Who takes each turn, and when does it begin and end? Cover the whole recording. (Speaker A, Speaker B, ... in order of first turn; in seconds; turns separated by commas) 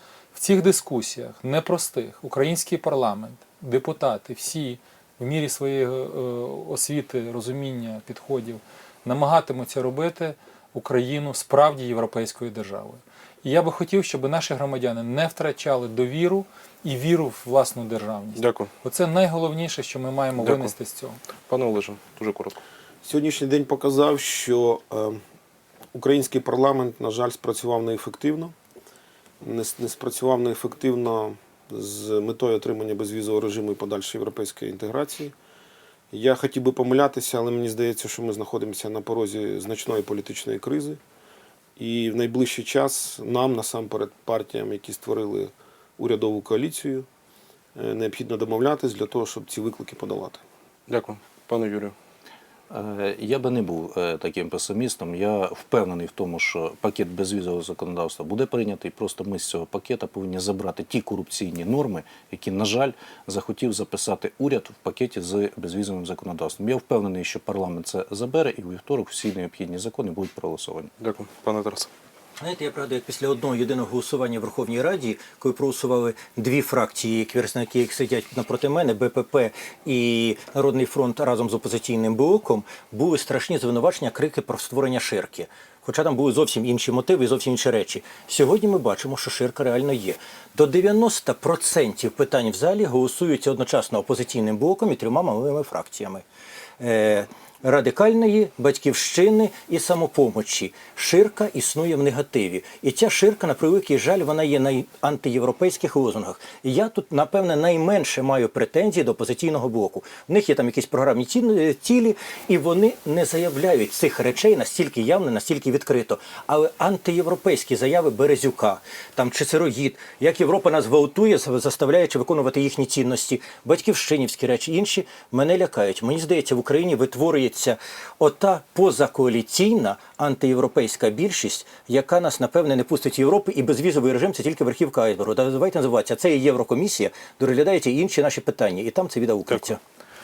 Speaker A: 0.3-21.2, Speaker B: 18.3-18.7, Speaker B: 20.4-20.7, Speaker B: 21.5-22.6, Speaker C: 23.0-25.2, Speaker C: 25.9-28.5, Speaker C: 29.4-35.3, Speaker C: 36.1-41.0, Speaker C: 41.8-47.0, Speaker C: 47.8-50.4, Speaker B: 50.9-51.9, Speaker D: 52.7-70.9, Speaker B: 71.0-71.9, Speaker E: 72.4-96.2, Speaker E: 96.8-139.8